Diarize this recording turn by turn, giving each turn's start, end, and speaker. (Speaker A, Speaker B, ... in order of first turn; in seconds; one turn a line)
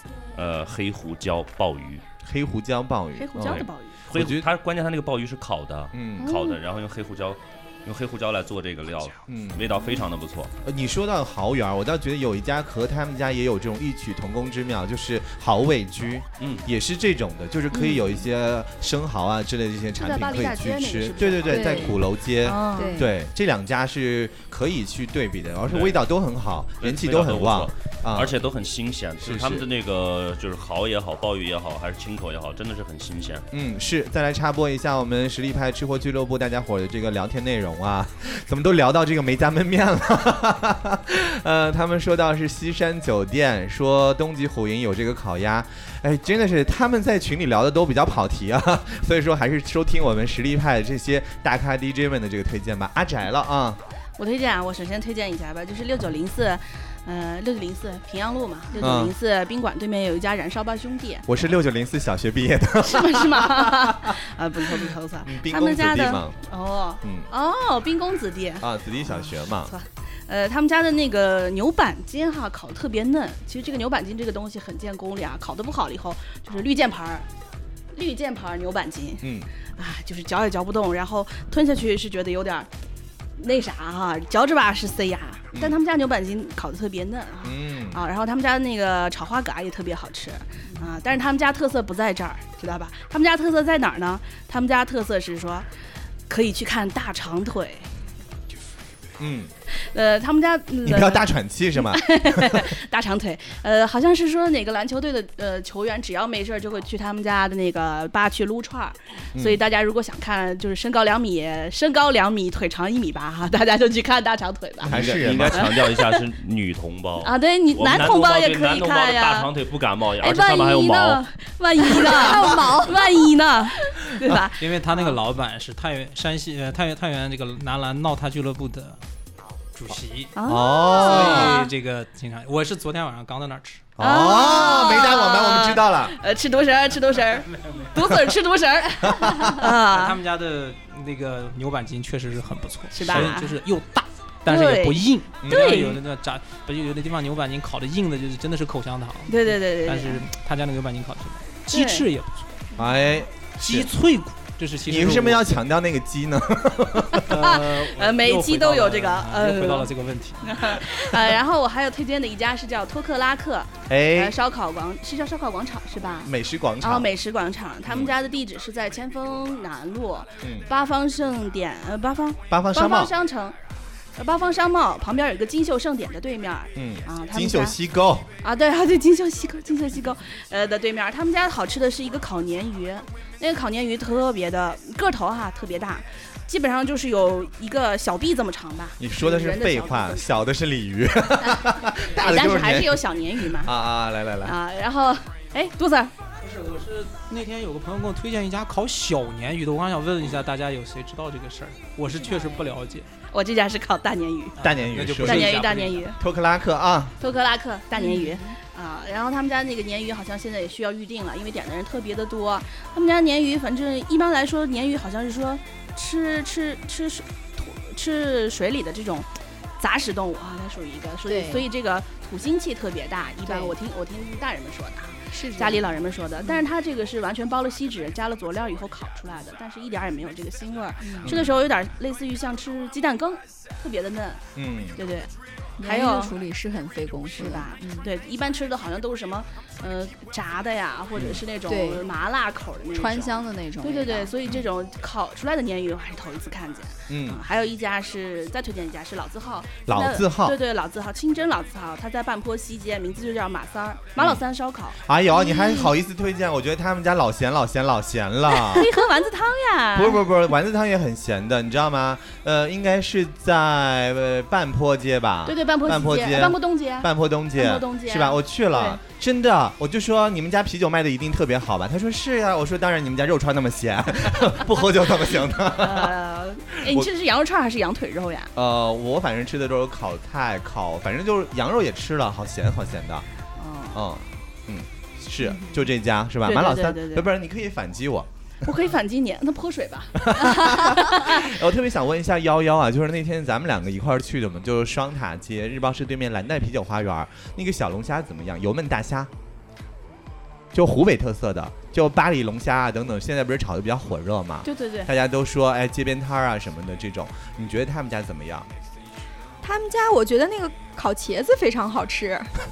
Speaker A: 0.3-2.0
Speaker B: 2.2-4.5
Speaker C: 3.1-4.0
Speaker A: 3.4-10.5
Speaker B: 5.9-6.3
Speaker B: 9.3-9.8
Speaker B: 10.6-28.4
Speaker A: 16.4-16.6
Speaker C: 20.0-23.1
Speaker D: 21.5-21.9
Speaker D: 22.8-23.1
Speaker A: 25.7-26.0
Speaker A: 26.8-33.5
Speaker B: 29.2-29.7
Speaker B: 33.5-53.8
Speaker C: 54.2-61.3
Speaker B: 58.8-59.1
Speaker B: 61.2-66.4
Speaker C: 62.8-77.3
Speaker B: 67.0-67.3
Speaker B: 68.6-69.7
Speaker C: 77.9-82.7
Speaker B: 79.2-79.5
Speaker C: 83.4-95.7
Speaker B: 87.4-88.0
Speaker C: 96.3-97.9
Speaker B: 99.2-99.5
Speaker C: 99.7-101.3
Speaker B: 100.8-102.7
Speaker C: 101.8-116.2
Speaker B: 109.3-109.6
Speaker B: 114.8-115.7
Speaker A: 114.9-121.2
Speaker C: 117.2-119.5
Speaker C: 120.2-125.2
Speaker D: 121.9-123.1
Speaker E: 124.6-129.0
Speaker E: 129.7-133.8
Speaker C: 130.3-131.7
Speaker B: 130.4-131.5
Speaker B: 134.0-136.2
Speaker C: 134.0-140.2
Speaker E: 137.4-138.0
Speaker B: 139.1-139.6
Speaker E: 139.6-152.6
Speaker C: 142.9-143.6
Speaker B: 143.1-143.3
Speaker C: 144.5-146.0
Speaker B: 145.4-145.8
Speaker C: 149.3-150.2
Speaker C: 151.7-152.1
Speaker B: 152.8-153.9
Speaker E: 153.6-155.5
Speaker B: 154.8-157.3
Speaker E: 157.2-160.8
Speaker C: 157.3-173.6
Speaker B: 163.9-164.3
Speaker B: 166.2-167.1
Speaker B: 167.8-168.1
Speaker B: 170.4-170.7
Speaker B: 172.5-173.1
Speaker C: 174.2-177.8
Speaker B: 176.7-178.3
Speaker C: 178.4-190.2
Speaker B: 189.0-194.6
Speaker C: 192.2-193.7
Speaker C: 194.4-196.1
Speaker E: 196.4-203.1
Speaker C: 202.2-202.7
Speaker C: 203.3-204.6
Speaker E: 204.6-206.0
Speaker B: 204.6-205.6
Speaker C: 205.2-206.2
Speaker B: 206.2-207.2
Speaker C: 207.2-234.4
Speaker D: 208.0-208.3
Speaker D: 221.2-221.7
Speaker D: 223.4-223.7
Speaker D: 225.3-225.8
Speaker D: 231.0-231.3
Speaker B: 231.2-231.6
Speaker B: 234.5-235.0
Speaker C: 235.0-235.3
Speaker D: 235.8-238.1
Speaker C: 235.8-236.3
Speaker C: 237.3-255.0
Speaker B: 241.1-241.4
Speaker D: 241.7-242.0
Speaker D: 242.9-244.3
Speaker B: 247.1-247.4
Speaker B: 249.9-250.6
Speaker B: 254.2-254.4
Speaker B: 255.0-258.9
Speaker C: 258.7-260.2
Speaker B: 259.9-276.2
Speaker C: 265.4-269.0
Speaker C: 275.8-278.5
Speaker B: 278.5-283.2
Speaker C: 283.6-284.0
Speaker B: 283.9-288.7
Speaker C: 286.4-287.3
Speaker C: 288.6-291.5
Speaker B: 290.1-299.3
Speaker B: 300.7-308.7
Speaker C: 304.6-305.1
Speaker F: 309.6-312.5